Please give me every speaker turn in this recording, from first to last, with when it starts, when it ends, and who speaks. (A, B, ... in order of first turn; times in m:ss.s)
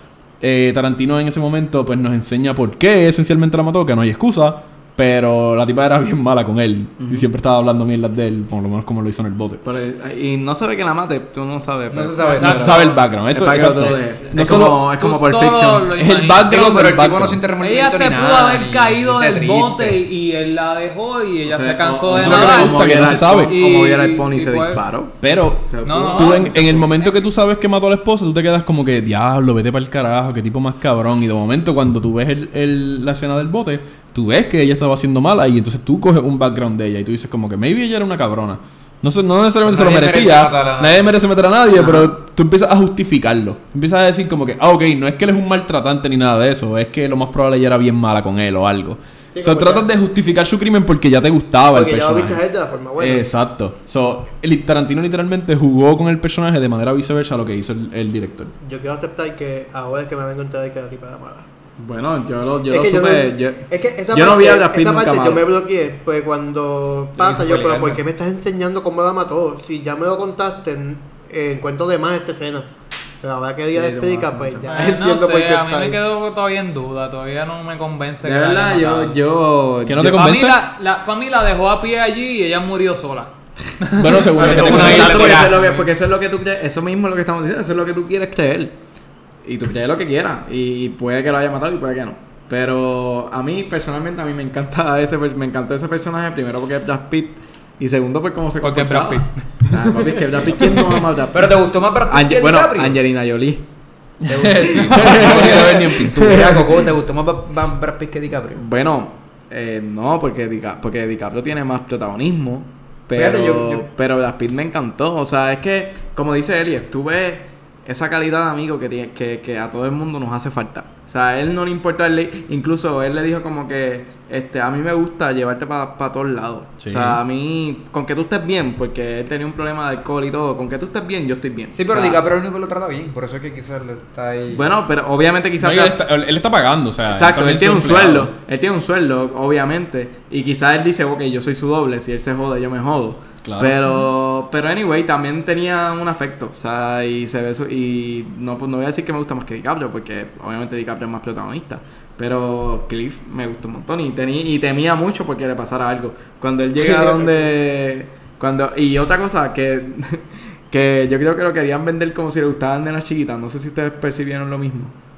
0:00.4-0:09.6 A
0:07.0-0:07.3 B
0:09.6-0:15.9 B
0:11.9-0:13.0 C
0:12.3-0:13.0 D
0:12.4-0:14.9 A
0:15.0-0:16.5 D
0:15.9-0:17.4 A
0:16.4-0:20.0 C
0:17.6-0:24.8 D
0:21.4-0:26.6 B
0:22.1-0:23.6 A
0:25.2-0:52.4 A
0:25.8-0:26.9 D
0:26.3-0:27.3 C
0:39.6-0:41.1 C
0:41.7-0:42.1 C
0:49.3-0:49.9 E
0:51.7-0:53.3 E
0:53.0-0:58.5 A
0:58.6-1:01.5 E
1:01.8-1:05.4 B
1:02.7-1:12.7 E
1:07.2-1:08.0 C
1:13.2-1:16.0 E
1:13.7-1:14.7 B
1:14.7-1:19.2 D
1:18.2-1:20.2 B
1:19.9-1:20.6 A
1:20.0-1:24.3 D
1:23.9-1:25.5 A
1:24.4-1:28.8 B
1:24.4-1:25.6 C
1:24.9-1:25.8 D
1:29.4-1:43.6 B
1:38.6-1:39.7 D
1:41.3-1:43.0 C
1:44.2-1:46.4 A
1:44.3-1:48.6 C
1:44.6-1:46.8 B
1:48.5-2:12.2 B
1:53.1-1:53.8 C
2:06.8-2:07.2 A
2:11.7-2:14.7 C
2:14.5-2:16.0 B
2:15.6-2:18.3 A
2:17.1-2:44.9 B
2:23.4-2:23.8 A